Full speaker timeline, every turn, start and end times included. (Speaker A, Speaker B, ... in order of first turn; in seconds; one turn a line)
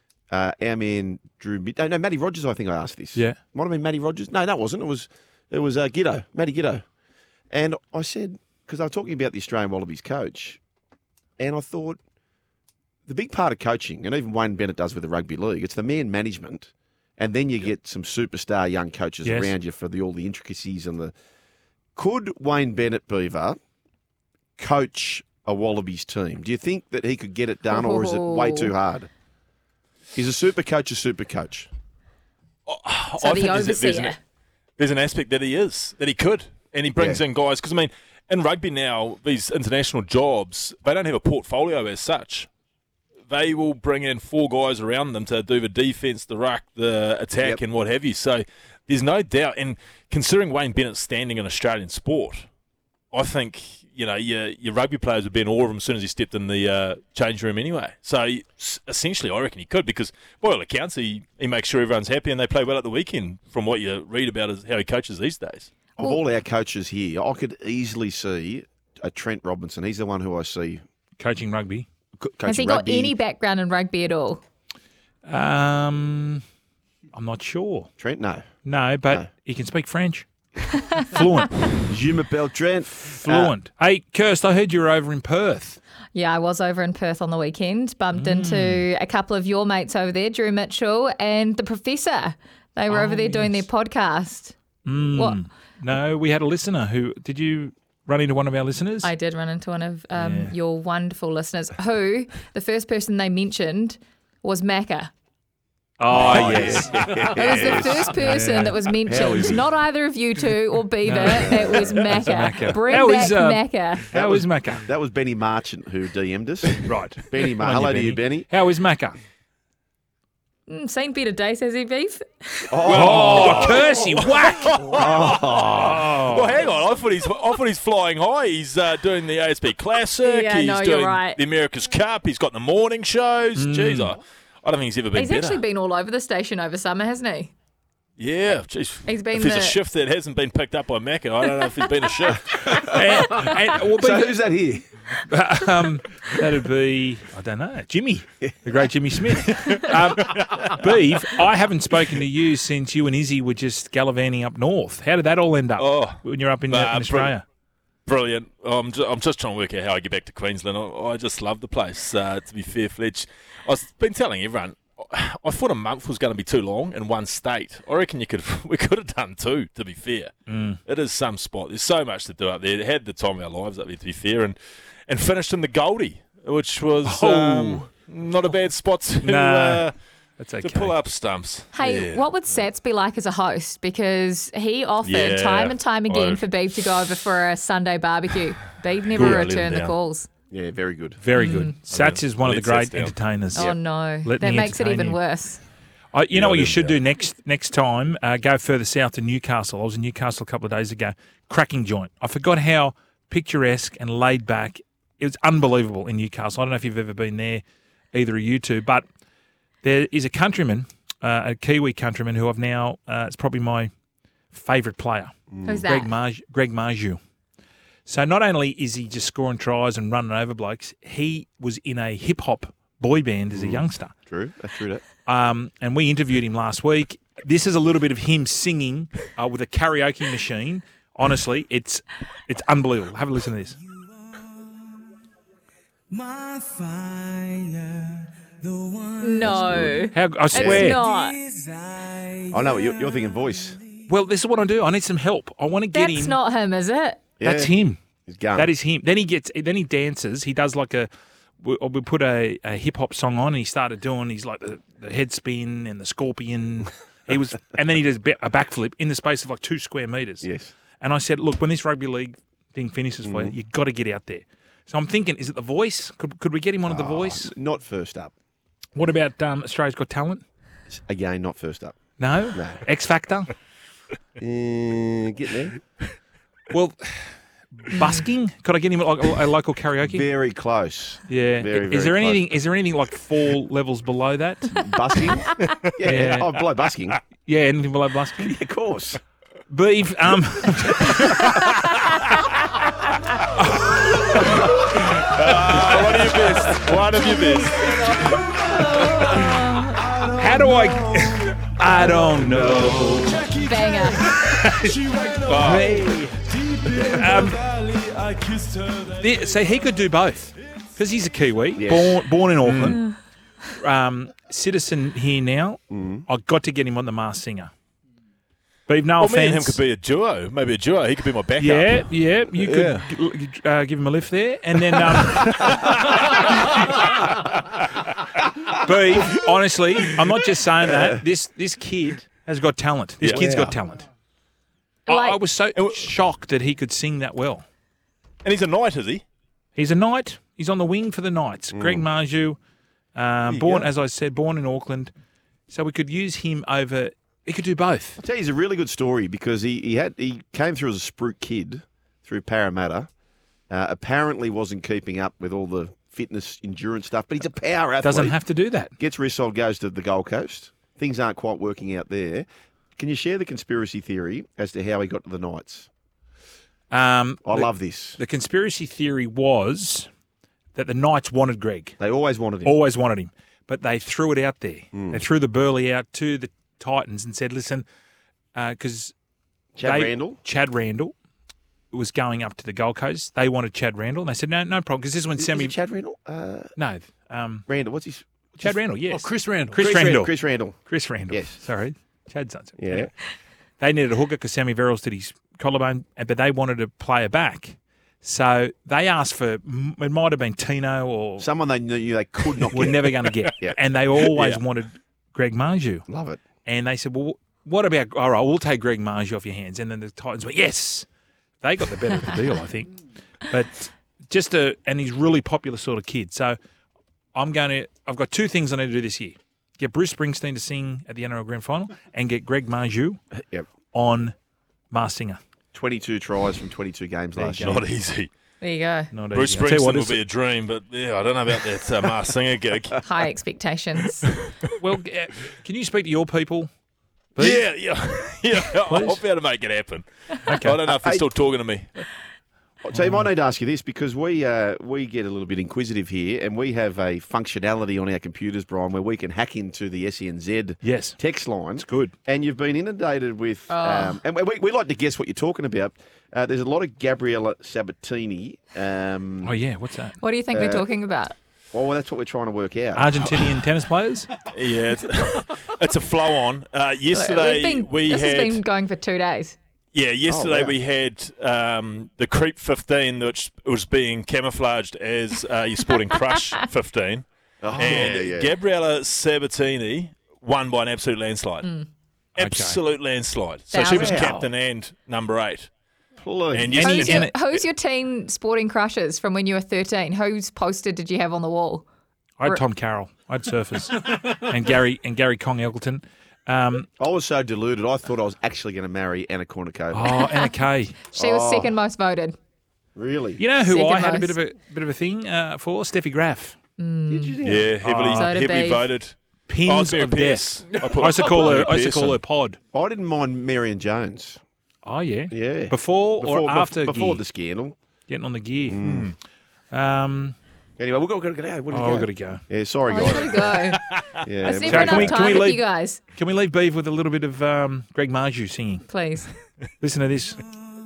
Speaker A: 0.3-6.8
Speaker A: 7.5-10.6
Speaker A: 11.4-12.0
Speaker A: 13.1-21.1
Speaker B: 19.2-19.6
Speaker A: 21.9-23.6
Speaker A: 24.6-29.1
Speaker C: 27.7-28.7
Speaker A: 30.1-31.7
Speaker D: 32.7-34.1
Speaker C: 33.2-34.2
Speaker D: 34.8-42.5
Speaker A: 37.0-37.2
Speaker D: 43.3-52.5
Speaker D: 53.1-65.7
Speaker A: 66.0-70.8
Speaker B: 71.2-71.9
Speaker A: 72.2-73.1
Speaker C: 72.5-74.4
Speaker B: 75.2-76.4
Speaker B: 77.1-77.9
Speaker A: 78.0-78.4
Speaker B: 78.6-80.3
Speaker B: 81.0-81.8
Speaker A: 81.9-83.5
Speaker B: 82.9-85.8
Speaker C: 86.1-94.5
Speaker B: 88.1-88.8
Speaker B: 92.9-93.6
Speaker B: 94.8-99.1
Speaker C: 95.1-95.4
Speaker C: 99.0-105.1
Speaker B: 100.1-100.5
Speaker B: 106.0-107.1
Speaker A: 106.1-108.1
Speaker D: 106.9-107.3
Speaker C: 107.3-114.1
Speaker B: 107.8-108.8
Speaker A: 109.0-109.7
Speaker B: 111.0-114.8
Speaker A: 111.2-112.2
Speaker A: 114.1-118.5
Speaker B: 116.8-119.2
Speaker C: 120.7-124.1
Speaker A: 122.7-123.8
Speaker B: 122.8-124.8
Speaker D: 123.0-135.6
Speaker A: 124.9-126.2
Speaker B: 125.8-126.6
Speaker C: 130.2-131.4
Speaker B: 133.5-134.1
Speaker C: 135.1-137.5
Speaker D: 138.2-142.9
Speaker C: 139.1-139.8
Speaker A: 142.6-144.9
Speaker B: 142.8-144.4
Speaker B: 145.3-157.4
Speaker D: 149.4-150.7
Speaker D: 155.8-157.3
Speaker D: 158.1-170.3
Speaker B: 170.5-170.8
Speaker D: 170.8-180.1
Speaker B: 177.0-177.9
Speaker B: 179.2-180.9
Speaker D: 180.6-182.6
Speaker C: 181.7-190.3
Speaker D: 185.0-186.9
Speaker D: 189.1-189.9
Speaker A: 190.5-191.2
Speaker B: 191.2-195.2
Speaker C: 191.3-191.7
Speaker D: 191.9-193.2
Speaker C: 193.5-195.6
Speaker B: 196.1-209.0
Speaker D: 196.3-197.0
Speaker B: 209.8-213.9
Speaker B: 214.5-215.3
Speaker A: 215.5-215.8
Speaker C: 215.6-216.1
Speaker B: 215.8-217.2
Speaker B: 218.1-224.1
Speaker A: 223.5-225.0
Speaker B: 225.2-233.8
Speaker E: 236.1-238.1
Speaker E: 238.6-239.2
Speaker C: 239.2-241.4
Speaker A: 239.4-240.0
Speaker B: 240.1-241.0
Speaker A: 240.5-240.9
Speaker E: 241.0-242.3
Speaker A: 242.5-243.8
Speaker B: 244.1-246.4
Speaker C: 245.9-247.2
Speaker A: 247.4-248.7
Speaker B: 247.4-248.0
Speaker B: 248.6-251.1
Speaker B: 251.6-260.5
Speaker A: 260.4-260.7
Speaker B: 261.0-267.5
Speaker A: 263.2-263.5
Speaker A: 266.8-268.3
Speaker B: 268.9-270.4
Speaker A: 270.9-272.0
Speaker B: 272.2-273.5
Speaker A: 272.5-272.8
Speaker A: 274.4-275.8
Speaker B: 276.7-280.3
Speaker C: 277.9-278.2
Speaker A: 280.0-282.5
Speaker B: 281.3-284.9
Speaker A: 284.7-287.2
Speaker D: 285.6-285.9
Speaker B: 286.1-286.5
Speaker B: 287.4-288.6
Speaker A: 288.4-289.2
Speaker B: 289.7-291.5
Speaker B: 293.5-294.9
Speaker D: 294.3-298.3
Speaker B: 298.0-299.8
Speaker C: 298.7-300.1
Speaker D: 299.0-299.4
Speaker D: 299.9-301.1
Speaker B: 300.4-303.5
Speaker D: 302.5-309.2
Speaker C: 303.5-304.3
Speaker B: 304.2-306.4
Speaker B: 307.0-307.6
Speaker B: 309.2-313.0
Speaker A: 311.7-312.2
Speaker D: 312.6-313.0
Speaker B: 313.8-317.7
Speaker A: 315.9-316.2
Speaker B: 318.9-319.8
Speaker D: 319.2-323.1
Speaker B: 321.6-327.2
Speaker D: 325.1-327.8
Speaker B: 328.7-334.1
Speaker D: 333.2-333.7
Speaker A: 333.3-333.7
Speaker C: 335.1-335.4
Speaker B: 335.1-337.6
Speaker D: 335.7-336.1
Speaker D: 338.4-339.2
Speaker B: 339.8-342.6
Speaker A: 341.7-342.0
Speaker B: 343.1-345.1
Speaker D: 343.5-343.9
Speaker B: 345.7-348.2
Speaker A: 348.2-353.1
Speaker A: 353.7-358.4
Speaker B: 358.0-358.9
Speaker A: 359.0-365.9
Speaker B: 366.9-370.1
Speaker A: 367.4-368.2
Speaker B: 370.7-372.0
Speaker A: 372.0-372.7
Speaker B: 372.6-377.9
Speaker A: 374.9-375.2
Speaker B: 378.5-379.1
Speaker A: 379.8-380.4
Speaker B: 379.8-381.1
Speaker B: 381.9-385.8
Speaker A: 385.4-386.7
Speaker B: 386.8-387.6
Speaker A: 387.7-388.8
Speaker B: 388.6-393.1
Speaker A: 389.7-390.8
Speaker A: 391.3-391.6
Speaker A: 392.8-393.1
Speaker B: 393.8-401.5
Speaker A: 401.4-403.8
Speaker B: 402.7-406.1
Speaker D: 403.2-403.5
Speaker D: 404.3-404.6
Speaker A: 406.1-406.4
Speaker B: 406.6-411.1
Speaker B: 411.6-416.6
Speaker B: 417.3-423.2
Speaker A: 423.3-423.6
Speaker B: 423.9-424.3
Speaker B: 424.9-425.4
Speaker A: 425.7-427.7
Speaker B: 427.4-427.8
Speaker D: 427.6-428.3
Speaker C: 428.6-429.1
Speaker B: 429.1-430.2
Speaker D: 429.3-433.0
Speaker C: 433.0-434.3
Speaker D: 434.2-434.5
Speaker B: 434.8-436.7
Speaker B: 437.3-437.6
Speaker D: 437.4-442.1
Speaker B: 438.8-439.2
Speaker B: 440.5-440.8
Speaker A: 441.0-441.3
Speaker A: 442.8-459.5
Speaker B: 442.9-443.3
Speaker B: 450.8-451.2
Speaker B: 451.7-452.1
Speaker C: 453.7-454.2
Speaker B: 459.4-460.2
Speaker C: 460.2-461.3
Speaker A: 460.5-460.9
Speaker A: 461.7-463.2
Speaker B: 462.9-464.3
Speaker D: 464.4-468.6
Speaker C: 467.1-469.6
Speaker D: 469.9-481.7
Speaker A: 470.3-470.8
Speaker A: 477.6-478.5
Speaker C: 481.6-481.9
Speaker D: 482.4-485.7
Speaker B: 482.4-482.8
Speaker C: 483.7-484.4
Speaker A: 483.8-484.5
Speaker A: 486.2-487.2
Speaker D: 486.5-487.6
Speaker C: 486.8-491.9
Speaker B: 487.0-487.3
Speaker B: 492.4-496.9
Speaker A: 497.0-500.2
Speaker B: 499.9-501.0
Speaker C: 500.0-500.5
Speaker C: 501.1-502.4
Speaker A: 501.1-501.7
Speaker A: 502.9-503.4
Speaker B: 503.4-506.6
Speaker C: 503.6-504.4
Speaker C: 506.8-507.4
Speaker A: 507.1-507.8
Speaker D: 507.4-512.2
Speaker B: 507.8-508.3
Speaker C: 508.1-508.9
Speaker B: 509.5-512.6
Speaker A: 512.7-514.4
Speaker B: 514.8-517.2
Speaker A: 515.3-517.7
Speaker B: 518.1-518.8
Speaker A: 518.7-519.1
Speaker D: 518.8-519.1
Speaker B: 519.7-520.4
Speaker A: 520.8-523.6
Speaker B: 521.7-522.4
Speaker C: 522.9-523.8
Speaker A: 524.2-525.4
Speaker C: 524.4-526.0
Speaker B: 524.6-528.9
Speaker C: 528.9-529.3
Speaker B: 529.8-530.5